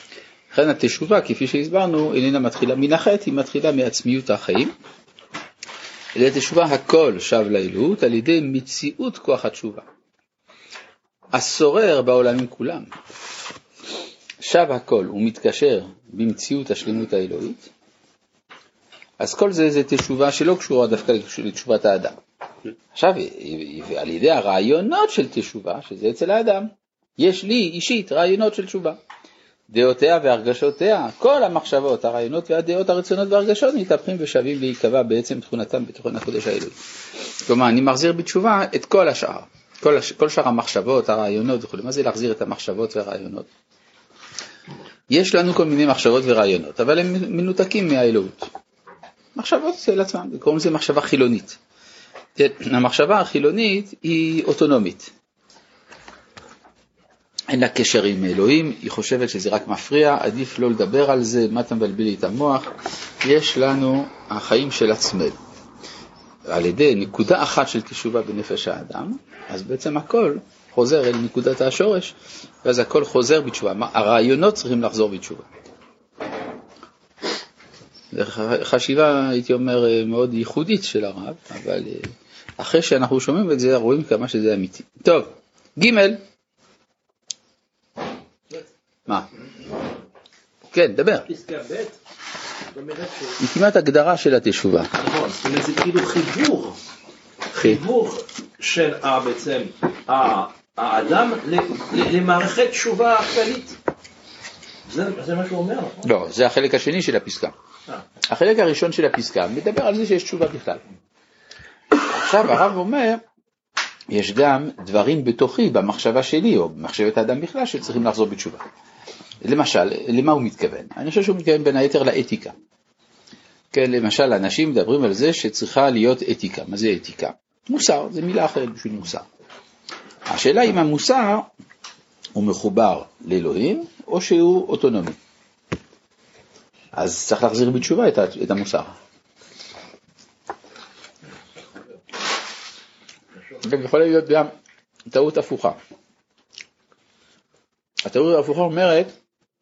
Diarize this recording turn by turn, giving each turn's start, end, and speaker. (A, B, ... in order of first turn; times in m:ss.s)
0:00.5-0:04.7 A
0:06.2-0:09.8 A
0:11.3-0:12.9 A
0:14.4-0:17.7 A
0:19.2-0:22.2 A
0:22.9-0:29.0 A
0:29.7-0:36.8 A
0:37.4-0:43.5 A
0:45.1-0:48.5 A
0:49.4-0:51.6 A
0:52.4-0:55.1 A
0:57.5-1:02.7 A
1:03.2-1:05.4 A
1:06.5-1:15.5 A
1:18.1-1:26.2 A
1:30.7-1:31.3 A
1:31.3-1:32.0 B
1:32.7-1:33.4 B
1:33.4-1:34.9 A
1:34.9-1:36.8 B
1:37.5-1:37.8 A
1:37.5-1:43.8 B
1:44.8-1:46.1 B
1:46.0-1:47.5 A
1:48.2-1:50.8 A
1:52.1-1:53.2 A
1:54.1-1:58.6 A
1:59.4-2:02.5 A
2:03.7-2:09.2 A
2:10.3-2:11.5 A
2:12.4-2:15.2 A
2:16.9-2:19.0 A
2:23.6-2:24.5 A
2:25.1-2:25.8 A
2:28.1-2:29.1 A